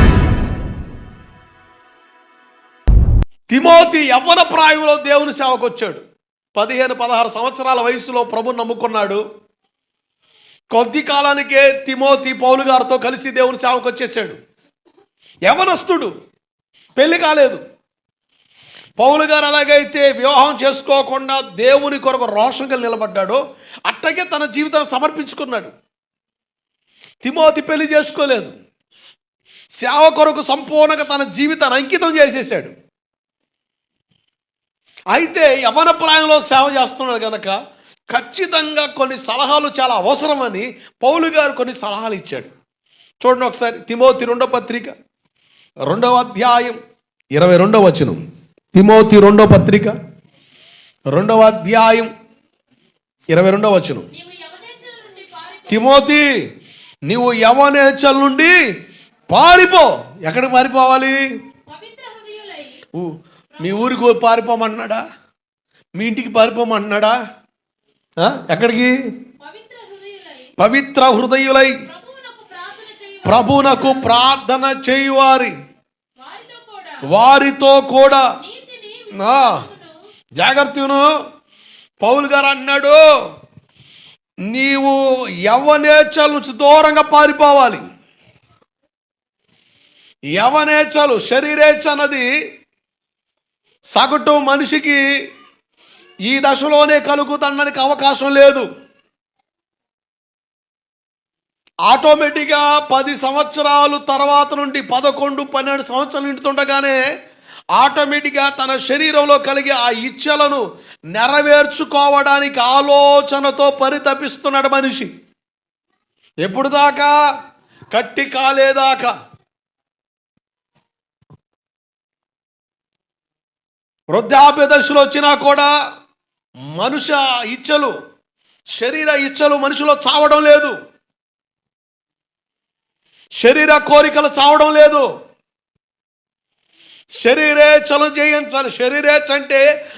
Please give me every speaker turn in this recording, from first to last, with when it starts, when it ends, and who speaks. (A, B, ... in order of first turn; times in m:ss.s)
0:03.5-0:06.0 A
0:06.5-0:09.2 A
0:10.7-0:14.4 A
0:15.4-0:16.1 A
0:17.0-0:17.6 A
0:19.0-0:25.7 A
0:27.2-0:28.6 A
0:29.8-0:32.7 A
0:35.1-0:37.6 A
0:38.1-0:42.5 A
0:43.2-0:44.9 A
0:45.9-0:46.8 A
0:47.3-0:48.2 A
0:48.7-0:50.0 A
0:51.1-0:52.1 A
0:53.3-0:54.1 A
0:54.1-0:55.9 B
0:55.7-0:56.4 A
0:57.0-0:58.5 A
0:59.3-1:01.2 A
1:01.7-1:02.8 B
1:02.9-1:05.0 A
1:06.0-1:07.2 A
1:08.2-1:09.0 A
1:09.4-1:10.5 B
1:10.6-1:11.8 A
1:11.9-1:13.8 B
1:13.2-1:15.5 A
1:16.2-1:17.0 B
1:17.0-1:18.3 A
1:18.4-1:19.9 B
1:19.1-1:19.6 A
1:20.4-1:21.1 A
1:22.0-1:23.0 A
1:24.5-1:27.8 A
1:30.3-1:32.3 A
1:33.9-1:35.0 A
1:36.2-1:38.7 A
1:41.9-1:47.0 A
1:47.7-1:55.1 A
1:56.4-1:57.2 A
1:57.9-1:59.1 A
2:04.1-2:05.7 A
2:06.7-2:07.9 A
2:08.8-2:10.8 A
2:13.4-2:15.1 A
2:17.2-2:19.6 A